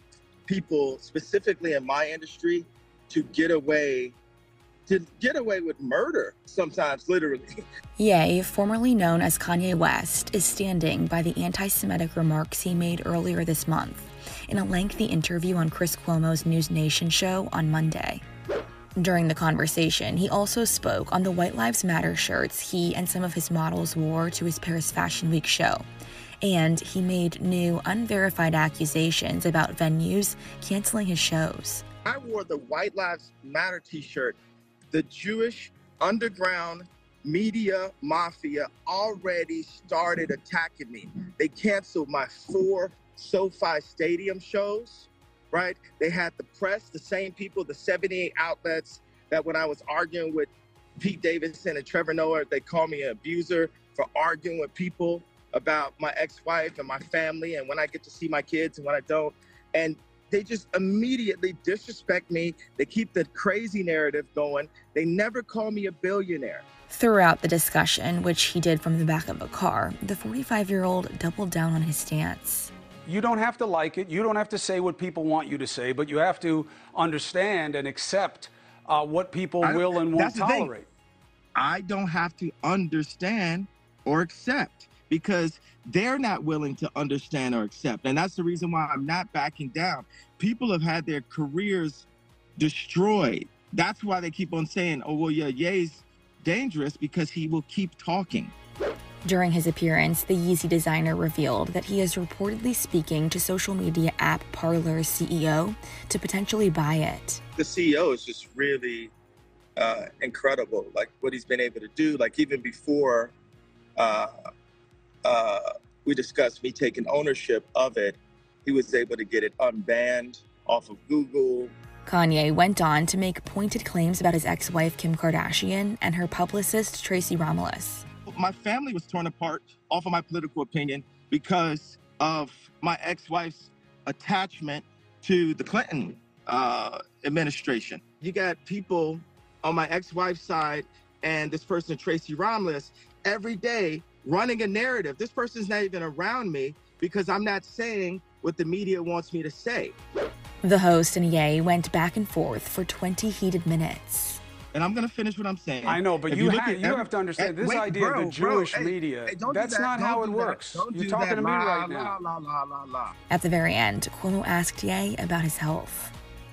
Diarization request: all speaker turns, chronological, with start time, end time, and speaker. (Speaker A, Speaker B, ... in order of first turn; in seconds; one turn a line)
Speaker A: 0.5-4.2
Speaker A: 4.9-7.5
Speaker B: 8.0-18.2
Speaker B: 19.0-25.9
Speaker B: 26.4-31.9
Speaker A: 32.0-34.4
Speaker A: 34.9-66.6
Speaker B: 66.9-72.7
Speaker C: 73.0-80.9
Speaker A: 79.6-80.7
Speaker A: 81.5-92.0
Speaker A: 92.6-98.5
Speaker B: 99.2-107.4
Speaker A: 107.6-109.1
Speaker A: 109.8-113.3
Speaker A: 114.0-114.3
Speaker A: 115.2-121.7
Speaker B: 122.0-128.0
Speaker A: 128.2-150.0
Speaker B: 150.6-154.4
Speaker A: 154.7-163.1
Speaker C: 155.8-162.2
Speaker B: 163.3-166.1